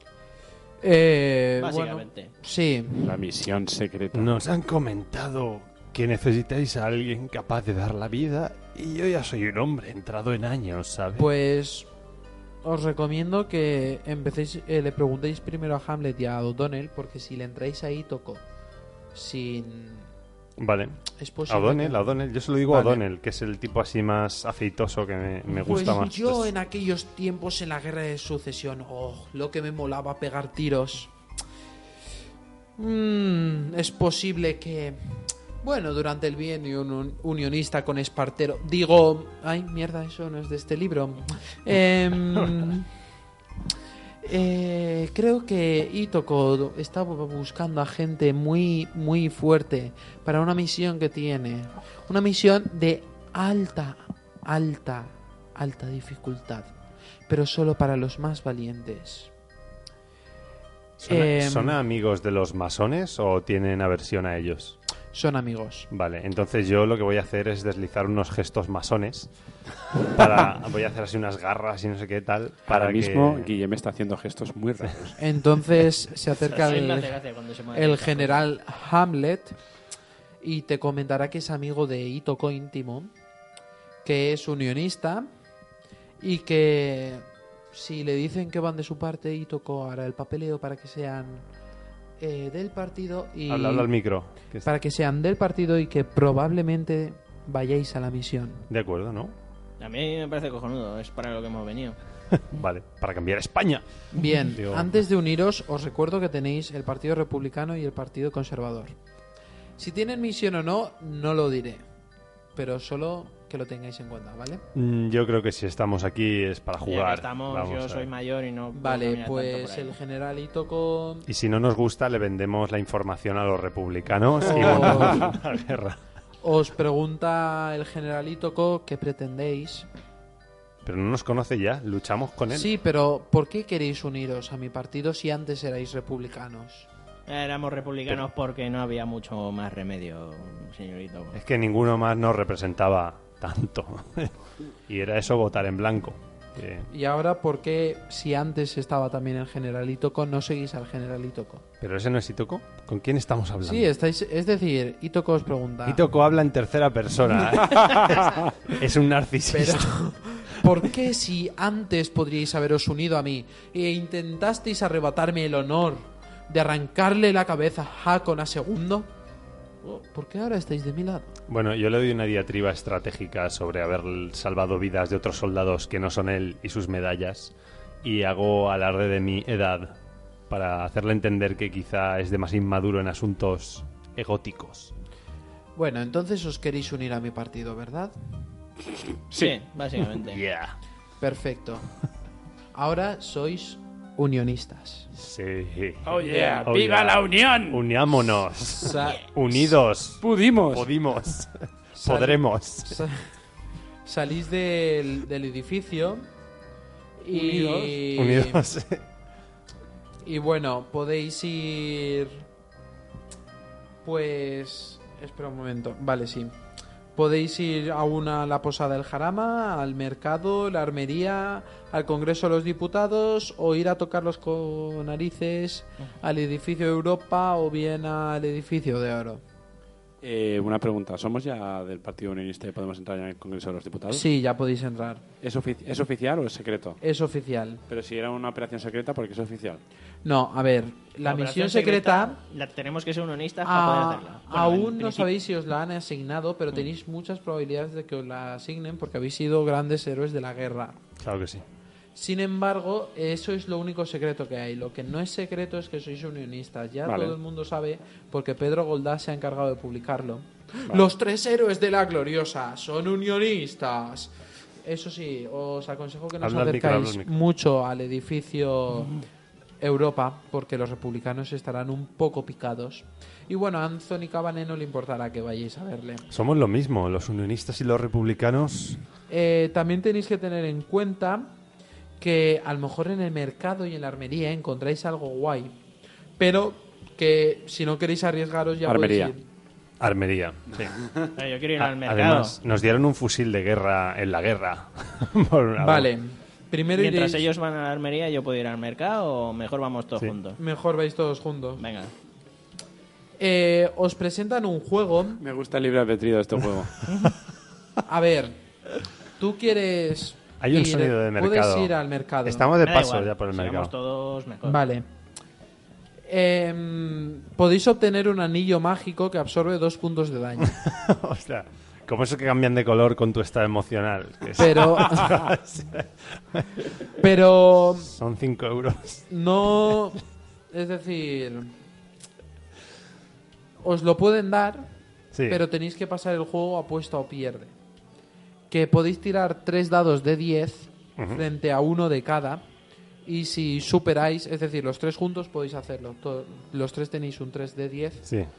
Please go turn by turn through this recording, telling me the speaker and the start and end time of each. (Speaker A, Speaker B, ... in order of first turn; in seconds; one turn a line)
Speaker A: 0.8-3.2
Speaker B: 1.6-2.3
Speaker C: 3.0-4.3
Speaker D: 4.1-11.3
Speaker A: 11.2-11.9
Speaker A: 12.6-18.4
Speaker A: 19.1-20.1
Speaker D: 20.6-26.5
Speaker A: 21.2-22.0
Speaker A: 22.7-23.0
Speaker A: 25.5-31.1
Speaker A: 32.8-42.9
Speaker D: 42.3-42.7
Speaker A: 44.2-56.7
Speaker A: 57.3-59.3
Speaker D: 61.0-64.8
Speaker A: 61.0-61.8
Speaker A: 65.1-65.9
Speaker D: 65.9-69.3
Speaker D: 70.0-73.5
Speaker C: 72.7-75.2
Speaker A: 75.2-77.1
Speaker B: 76.4-78.5
Speaker A: 77.7-79.5
Speaker A: 80.4-83.1
Speaker A: 84.0-85.3
Speaker A: 86.2-91.4
Speaker A: 92.2-93.9
Speaker D: 93.5-94.7
Speaker A: 94.6-98.6
Speaker D: 98.7-99.3
Speaker B: 99.8-102.0
Speaker D: 102.3-103.8
Speaker A: 104.1-108.9
Speaker D: 104.5-104.9
Speaker A: 109.8-111.8
Speaker A: 112.5-114.6
Speaker D: 114.7-118.1
Speaker B: 116.8-119.9
Speaker A: 118.7-121.3
Speaker D: 121.3-126.0
Speaker A: 124.4-125.3
Speaker C: 124.7-125.2
Speaker A: 126.4-129.9
Speaker D: 130.8-132.7
Speaker A: 132.5-136.9
Speaker B: 137.3-141.4
Speaker D: 141.3-144.3
Speaker D: 144.9-146.9
Speaker A: 146.9-151.6
Speaker D: 151.8-153.9
Speaker A: 153.6-156.0
Speaker D: 155.8-160.9
Speaker A: 159.5-169.1
Speaker A: 169.8-171.3
Speaker D: 171.5-180.0
Speaker D: 180.5-184.9
Speaker A: 185.8-188.1
Speaker C: 189.3-189.6
Speaker B: 189.4-190.4
Speaker D: 190.2-190.8
Speaker A: 191.2-191.9
Speaker A: 192.7-195.1
Speaker D: 195.1-203.0
Speaker C: 196.1-197.8
Speaker A: 196.2-196.7
Speaker A: 198.7-199.7
Speaker C: 200.2-200.9
Speaker A: 201.9-203.3
Speaker A: 204.0-206.3
Speaker A: 207.2-208.6
Speaker C: 207.3-208.0
Speaker D: 208.1-209.0
Speaker A: 210.2-212.4
Speaker A: 214.0-216.6
Speaker A: 217.1-229.4
Speaker C: 230.2-234.2
Speaker A: 234.1-235.2
Speaker C: 235.4-237.0
Speaker A: 237.0-237.8
Speaker C: 237.9-239.8
Speaker A: 240.2-242.4
Speaker B: 241.2-245.3
Speaker A: 243.6-251.0
Speaker D: 251.2-251.6
Speaker A: 252.1-269.1
Speaker C: 257.1-257.4
Speaker D: 266.4-267.3
Speaker A: 269.8-276.2
Speaker D: 276.3-279.0
Speaker A: 279.3-281.6
Speaker A: 282.2-285.7
Speaker A: 286.4-289.4
Speaker C: 288.8-289.3
Speaker D: 290.0-291.0
Speaker C: 290.8-291.3
Speaker B: 291.3-292.6
Speaker D: 291.8-296.1
Speaker A: 295.8-297.5
Speaker B: 296.9-300.6
Speaker A: 300.6-301.8
Speaker B: 301.8-302.1
Speaker A: 303.4-305.4
Speaker C: 305.4-307.0
Speaker B: 307.1-307.3
Speaker A: 308.0-308.6
Speaker A: 309.4-312.7
Speaker D: 310.6-311.9
Speaker D: 312.4-313.9
Speaker B: 312.8-314.8
Speaker A: 314.6-315.1
Speaker A: 316.2-320.7
Speaker D: 320.6-327.0
Speaker A: 324.6-325.4
Speaker A: 327.2-328.1
Speaker D: 328.0-329.3
Speaker A: 329.3-331.7
Speaker A: 333.8-334.9
Speaker D: 335.3-335.6
Speaker A: 335.5-337.7
Speaker A: 338.7-342.6
Speaker D: 341.2-341.4
Speaker A: 343.2-348.2